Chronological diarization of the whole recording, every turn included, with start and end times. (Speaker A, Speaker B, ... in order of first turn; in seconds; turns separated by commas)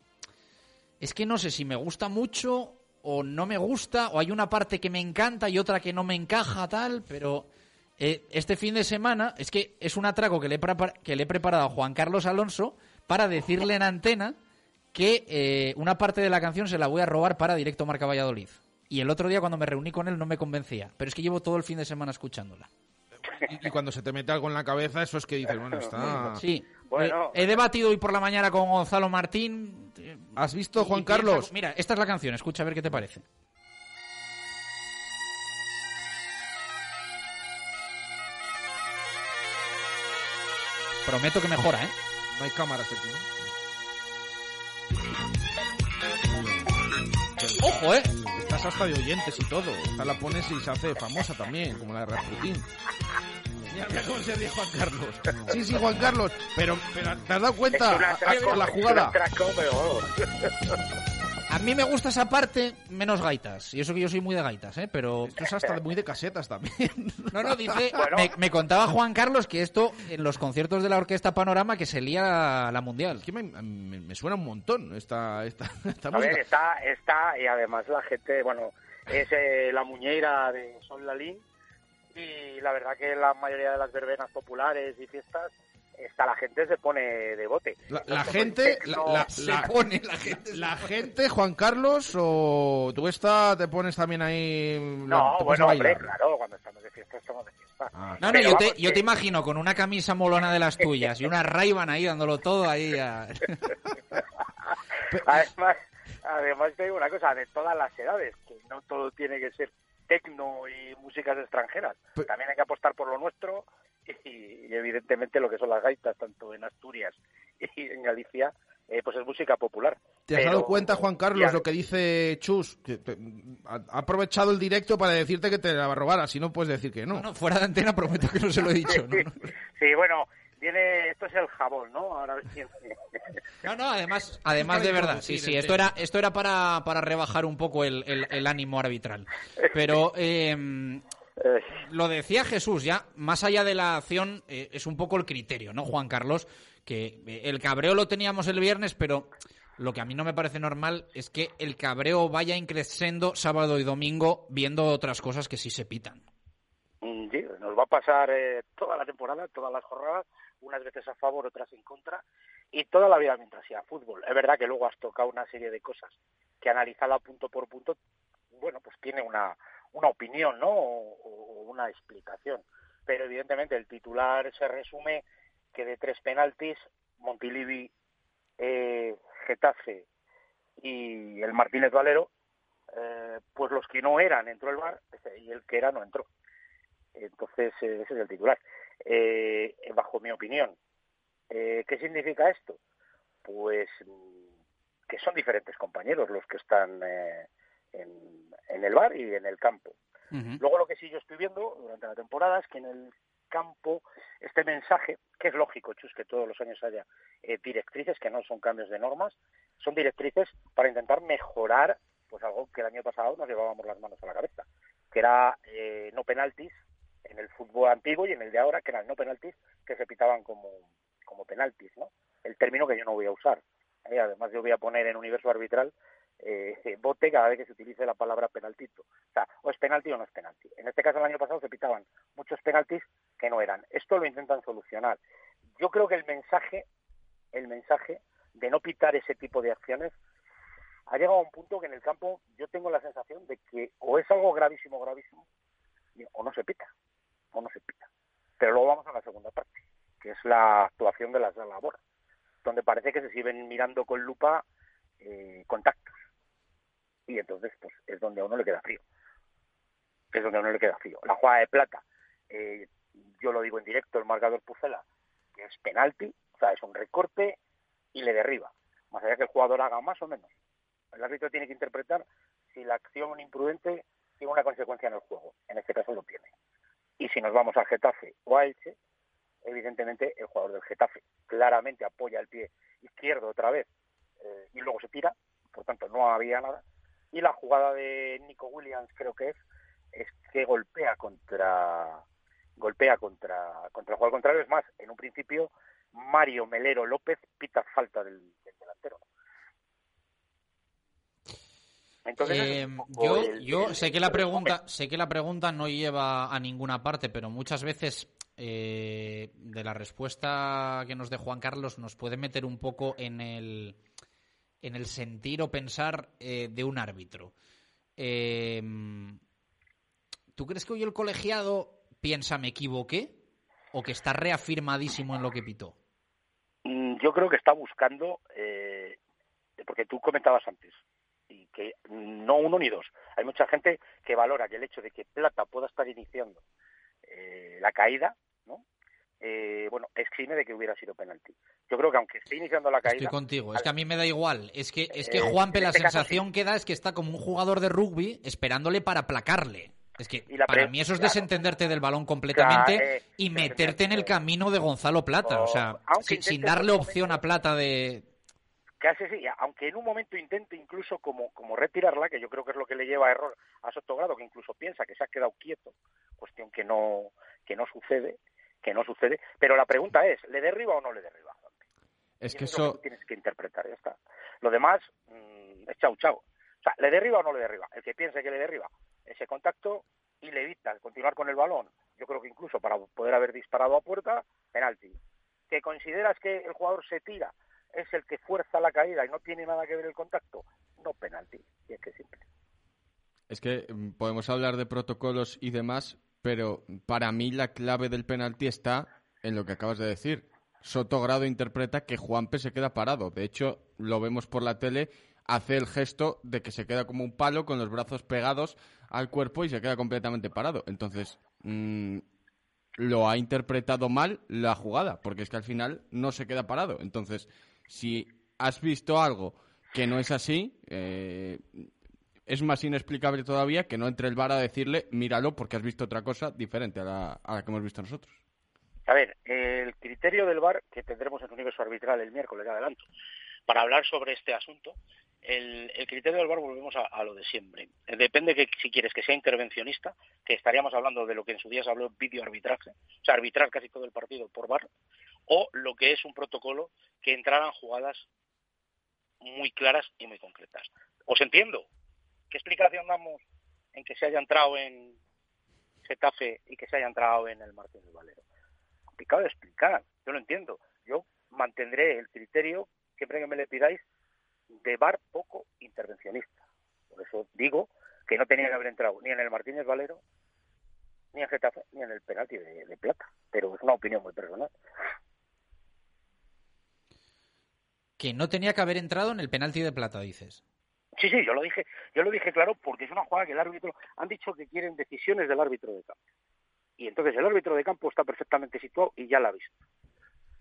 Speaker A: 1.0-14.4, Speaker A: 14.9-22.7, Speaker B: 23.4-26.4, Speaker A: 26.4-33.2, Speaker C: 26.9-27.5, Speaker B: 30.4-31.5, Speaker A: 41.1-41.9, Speaker B: 42.3-43.4, Speaker B: 47.4-52.7, Speaker A: 47.6-48.1, Speaker B: 53.7-59.2, Speaker C: 57.7-60.1, Speaker A: 61.5-65.4, Speaker B: 65.3-67.8, Speaker A: 67.3-73.2, Speaker C: 68.0-68.3, Speaker B: 73.2-76.5, Speaker C: 76.1-81.4, Speaker C: 82.1-89.3, Speaker B: 87.9-89.7, Speaker A: 89.3-90.9, Speaker B: 90.3-96.1, Speaker C: 95.1-99.0, Speaker B: 98.0-98.2, Speaker A: 98.2-103.6, Speaker C: 105.2-121.7, Speaker B: 120.3-127.3, Speaker A: 127.1-129.5, Speaker C: 129.8-133.0, Speaker A: 133.6-141.0, Speaker B: 134.5-135.9, Speaker C: 141.4-141.7, Speaker A: 141.8-156.2, Speaker C: 157.0-168.0, Speaker C: 168.5-175.2, Speaker C: 175.7-177.9, Speaker C: 178.6-180.1, Speaker C: 180.8-182.3, Speaker C: 182.9-186.3, Speaker C: 187.2-190.8, Speaker C: 191.5-192.8, Speaker C: 193.4-194.4, Speaker C: 195.1-200.0, Speaker A: 200.3-200.6, Speaker C: 200.6-216.7, Speaker C: 217.2-235.2, Speaker C: 235.8-236.8, Speaker C: 237.5-240.1, Speaker C: 241.1-245.4, Speaker C: 246.2-246.9, Speaker C: 247.5-248.1, Speaker C: 248.6-252.0, Speaker C: 252.6-254.6, Speaker C: 255.2-256.1, Speaker C: 257.3-259.0, Speaker C: 260.3-265.0, Speaker C: 265.6-267.6, Speaker C: 268.1-270.5, Speaker C: 271.1-276.5, Speaker C: 277.2-279.0, Speaker C: 279.6-283.9, Speaker C: 284.4-286.8, Speaker C: 287.3-289.6, Speaker C: 290.1-292.2, Speaker C: 292.8-299.2, Speaker C: 302.3-304.7, Speaker A: 302.4-314.0, Speaker A: 314.8-317.5, Speaker A: 318.2-319.4, Speaker A: 320.6-323.4, Speaker A: 323.9-325.9, Speaker C: 326.9-329.2, Speaker C: 329.8-331.0, Speaker C: 331.5-336.6, Speaker C: 337.3-338.8, Speaker C: 339.4-343.9, Speaker A: 343.1-358.2, Speaker C: 345.2-346.4, Speaker C: 350.5-351.7, Speaker C: 352.5-354.3, Speaker C: 355.5-357.4, Speaker C: 359.0-371.8, Speaker D: 372.4-373.0, Speaker C: 372.5-385.2, Speaker C: 385.7-392.4, Speaker D: 393.5-412.2, Speaker D: 413.0-421.9, Speaker D: 422.5-428.4, Speaker C: 429.1-433.0, Speaker C: 433.7-444.9, Speaker C: 445.5-448.2, Speaker C: 449.4-451.9, Speaker C: 452.5-453.4, Speaker C: 453.9-455.1, Speaker C: 456.1-458.4, Speaker C: 459.2-464.0, Speaker C: 464.8-466.6, Speaker C: 467.1-470.2, Speaker C: 471.3-474.7, Speaker A: 478.2-480.6, Speaker C: 481.2-486.2, Speaker C: 487.0-489.8